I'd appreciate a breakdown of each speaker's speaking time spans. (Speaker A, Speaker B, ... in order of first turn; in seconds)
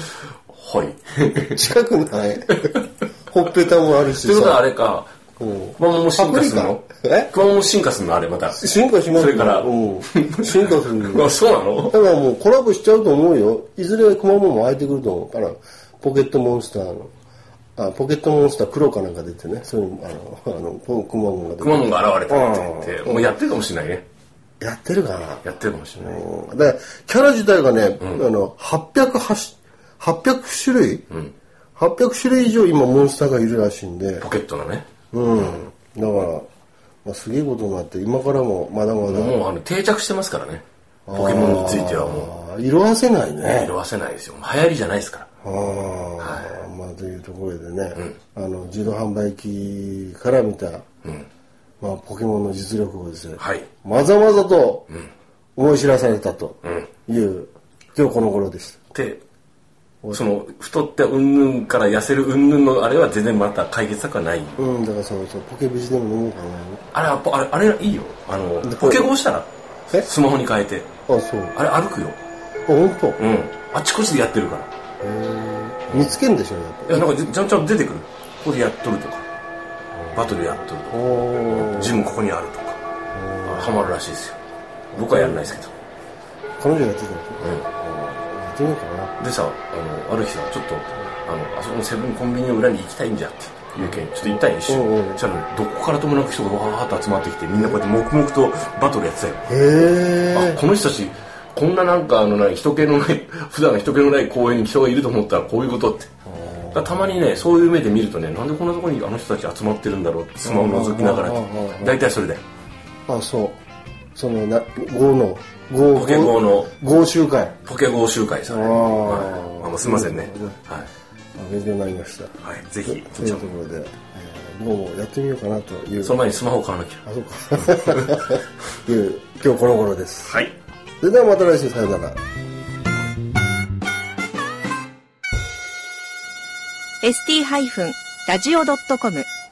Speaker A: 0.5-1.6, 4.1-5.1, 5.8-12.0, 21.6-24.0, 25.4-26.2, 28.0-28.2, 34.2-34.9, 39.0-42.3, 43.4-45.3, 46.2-46.5, 53.4-53.7, 56.6-56.9, 58.9-59.2, 60.1-64.6, 66.9-70.9, 71.5-72.2, 73.2-74.7, 75.9-76.1, 76.9-79.2, 80.1-82.8, 83.5-84.4, 84.9-85.7, 87.4-87.7, 89.2-99.5, 100.3-106.1, 106.7-112.4, 115.9-116.7, 117.6-120.9, 122.4-123.5, 126.0-127.0, 127.6-128.2, 130.2-130.5
Speaker B: 1.5-4.6, 5.4-7.3, 8.6-11.3, 11.8-17.1, 17.8-23.3, 24.6-25.4, 26.0-31.0, 31.8-34.2, 35.1-36.5, 37.0-39.4, 41.1-43.7, 45.4-50.8, 51.8-54.9, 55.5-58.8, 64.6-66.8, 68.6-69.1, 71.1-71.5, 72.7-73.2, 75.0-77.1, 80.0-82.1, 83.1-83.9, 85.1-85.4, 86.6-89.2, 94.7-95.2, 99.5-100.6, 106.3-107.0, 110.4-112.0, 113.1-113.6, 114.2-117.6, 118.5-120.6, 121.3-126.2, 127.0-130.4, 131.0-132.2
Speaker C: 137.0-139.3